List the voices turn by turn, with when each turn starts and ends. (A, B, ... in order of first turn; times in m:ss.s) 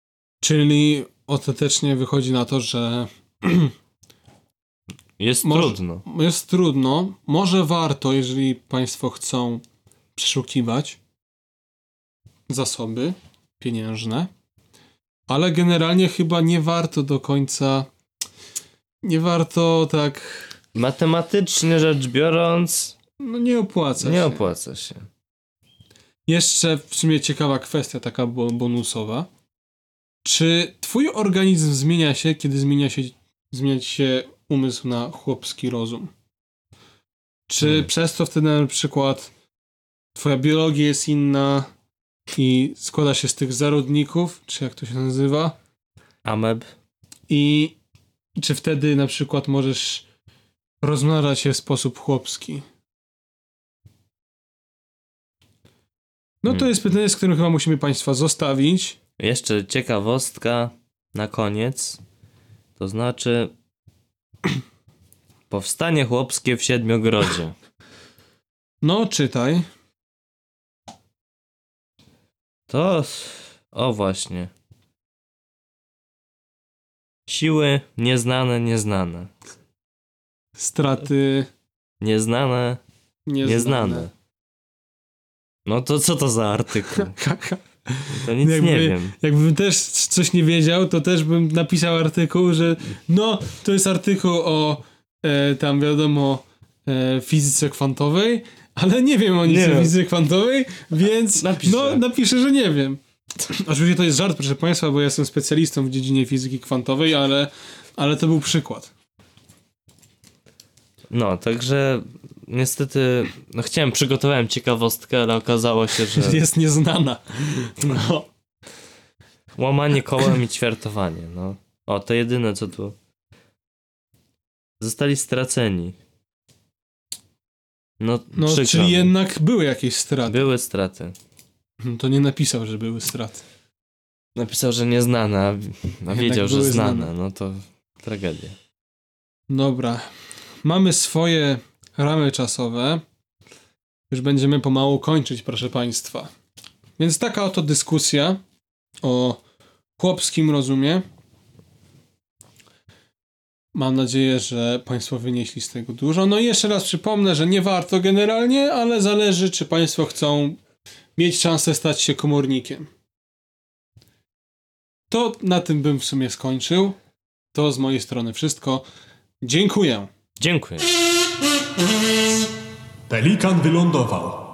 0:00.4-0:03.7 A
0:05.2-0:06.0 B
0:05.4-0:09.6 A
0:10.2-0:11.0 A
0:12.5-0:14.3 A
0:15.3-0:17.9 A
0:19.0-0:20.5 A
0:20.7-0:23.0 B
0:23.2-0:24.5 A
0:24.0-0:25.1 B
0:26.3-0:29.3 A
0:30.2-0:36.1 A
0:37.5-0:39.3 A
0:37.6-0:37.9 B
0:40.1-0:41.7 A
0:42.4-0:45.6 A
0:46.2-0:46.6 B
0:47.3-0:47.7 A
0:48.4-0:50.0 A
0:50.8-0:52.6 A
0:56.4-0:59.0 A
0:59.2-1:02.0 B
1:02.8-1:03.5 B
1:05.5-1:07.6 B
1:08.8-1:09.6 A
1:12.7-1:14.5 B
1:17.3-1:19.3 B
1:20.6-1:21.5 A
1:22.0-1:22.8 B
1:23.3-1:24.1 A
1:23.4-1:24.1 B
1:25.6-1:27.2 B
1:26.9-1:48.9 A
1:28.2-1:29.1 B
1:39.4-1:39.9 B
1:41.3-1:42.0 B
1:51.1-1:56.4 B
1:56.1-1:58.3 A
1:59.5-2:03.0 B
2:04.8-2:06.0 B
2:08.0-2:09.1 B
2:08.3-2:10.5 A
2:10.3-2:11.2 B
2:11.8-2:13.4 A
2:14.3-2:18.5 B
2:16.1-2:17.1 A
2:19.5-2:20.1 A
2:20.6-2:23.0 A
2:24.1-2:26.3 A
2:27.0-2:28.4 A
2:29.0-2:29.4 A
2:30.0-2:31.0 A
2:33.7-2:40.6 A
2:41.2-2:42.9 A
2:45.1-2:47.0 A
2:47.5-2:48.8 A
2:49.4-2:50.1 A
2:50.4-2:50.9 B
2:53.1-2:54.4 A